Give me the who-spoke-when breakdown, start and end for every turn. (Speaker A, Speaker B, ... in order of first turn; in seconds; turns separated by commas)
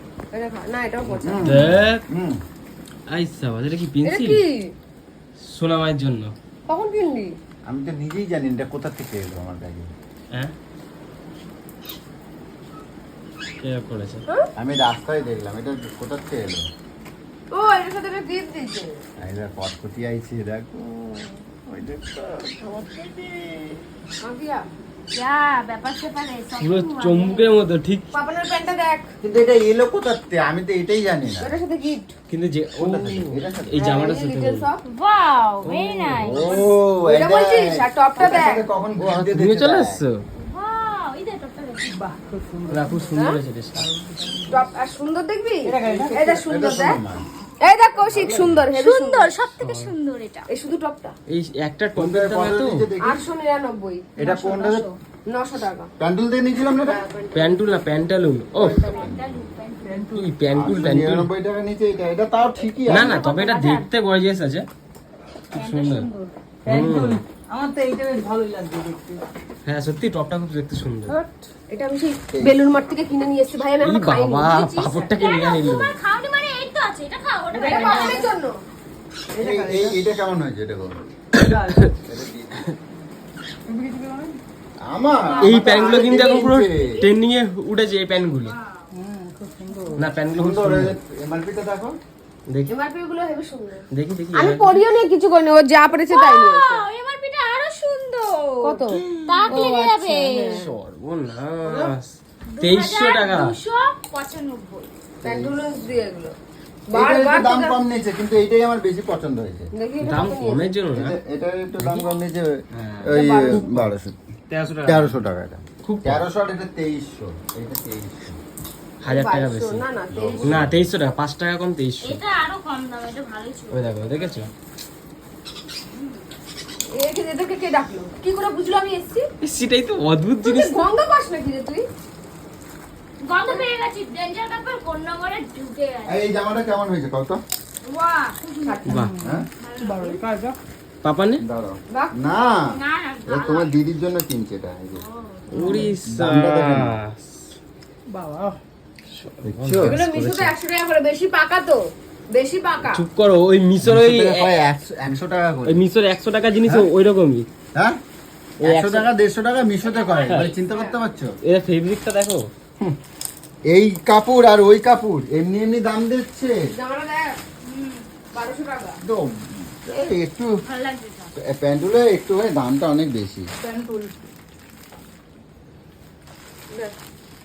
Speaker A: 0.3-1.7, Speaker B: 1.1-2.4, Speaker C: 1.4-2.0, Speaker C: 3.1-4.4, Speaker A: 4.0-4.7, Speaker C: 5.4-6.3, Speaker A: 6.7-7.3, Speaker B: 7.7-9.9, Speaker C: 13.6-14.2, Speaker B: 14.6-16.6, Speaker A: 17.5-19.0, Speaker B: 19.2-23.9, Speaker A: 24.2-24.7, Speaker D: 25.1-27.5, Speaker C: 26.6-28.1, Speaker A: 28.1-29.1, Speaker B: 29.2-31.5, Speaker A: 31.4-32.1, Speaker C: 32.3-34.7, Speaker B: 32.8-33.9, Speaker A: 33.8-34.8, Speaker D: 34.9-36.7, Speaker C: 35.6-36.6, Speaker B: 36.2-40.0, Speaker A: 37.0-38.6, Speaker C: 39.0-40.2, Speaker D: 40.4-42.1, Speaker E: 42.0-43.2, Speaker C: 42.7-43.9, Speaker E: 43.7-44.6, Speaker A: 44.5-47.0, Speaker E: 45.6-46.1, Speaker B: 45.8-47.2, Speaker A: 47.6-49.3, Speaker B: 48.1-48.6, Speaker D: 48.7-50.5, Speaker C: 49.6-49.9, Speaker A: 50.5-51.1, Speaker C: 51.3-52.9, Speaker B: 51.9-53.3, Speaker A: 53.0-54.1, Speaker B: 54.2-54.9, Speaker D: 54.2-55.0, Speaker A: 55.3-55.9, Speaker B: 56.0-57.0, Speaker A: 56.7-57.6, Speaker C: 57.3-58.9, Speaker B: 58.5-59.5, Speaker D: 58.6-60.2, Speaker E: 59.8-60.3, Speaker C: 60.1-61.3, Speaker B: 60.5-63.2, Speaker D: 62.7-63.9, Speaker C: 62.9-64.7, Speaker D: 65.5-66.3, Speaker C: 65.5-66.1, Speaker E: 66.6-69.2, Speaker C: 66.7-67.2, Speaker C: 69.6-71.2, Speaker A: 71.1-75.6, Speaker B: 72.3-72.6, Speaker C: 73.8-76.0, Speaker D: 75.2-78.3, Speaker E: 77.5-78.3, Speaker A: 77.6-78.6, Speaker E: 79.3-80.0, Speaker B: 79.4-81.0, Speaker C: 81.3-81.8, Speaker E: 81.3-82.0, Speaker B: 82.0-82.7, Speaker E: 83.7-84.3, Speaker B: 84.8-87.0, Speaker D: 85.2-87.1, Speaker C: 85.4-88.5, Speaker D: 88.5-88.8, Speaker E: 88.9-90.1, Speaker C: 90.0-91.0, Speaker B: 90.3-92.0, Speaker A: 92.7-96.8, Speaker C: 93.9-94.8, Speaker D: 96.1-100.6, Speaker A: 98.6-100.7, Speaker B: 98.9-99.7, Speaker C: 100.5-103.5, Speaker D: 102.5-104.9, Speaker B: 105.2-105.9, Speaker A: 105.2-106.3, Speaker A: 106.9-107.8, Speaker B: 106.9-109.7, Speaker A: 109.7-110.7, Speaker C: 110.0-111.2, Speaker B: 110.9-114.2, Speaker C: 111.8-112.1, Speaker C: 112.7-113.9, Speaker A: 113.1-113.6, Speaker C: 114.5-115.2, Speaker B: 114.8-118.4, Speaker C: 115.8-116.2, Speaker C: 119.0-119.8, Speaker A: 119.0-120.6, Speaker B: 120.1-120.9, Speaker C: 120.4-122.2, Speaker D: 122.0-124.5, Speaker C: 123.7-124.5, Speaker D: 125.9-126.2, Speaker A: 126.9-129.3, Speaker C: 129.4-130.9, Speaker A: 130.4-131.8, Speaker D: 133.2-136.2, Speaker B: 136.1-137.4, Speaker D: 137.8-139.1, Speaker A: 138.6-139.0, Speaker C: 138.9-139.1, Speaker E: 138.9-140.6, Speaker D: 139.6-140.2, Speaker C: 141.0-141.4, Speaker B: 141.4-142.6, Speaker A: 141.9-142.2, Speaker D: 142.7-143.7, Speaker B: 143.2-145.0, Speaker D: 145.1-145.8, Speaker C: 145.5-147.2, Speaker B: 145.6-146.9, Speaker E: 145.6-145.9, Speaker E: 148.1-148.6, Speaker C: 149.1-150.5, Speaker B: 149.4-150.0, Speaker A: 149.8-151.8, Speaker A: 152.3-153.0, Speaker C: 152.8-154.5, Speaker B: 153.8-155.8, Speaker C: 155.7-157.4, Speaker C: 158.6-159.1, Speaker B: 158.6-161.3, Speaker D: 159.8-160.5, Speaker C: 160.2-160.5, Speaker A: 160.7-161.0, Speaker C: 161.4-162.5, Speaker B: 163.7-166.6, Speaker A: 166.7-167.4, Speaker D: 167.6-168.1, Speaker A: 168.3-169.0, Speaker B: 169.0-170.5, Speaker D: 170.6-171.3, Speaker B: 171.4-173.5, Speaker E: 173.6-174.1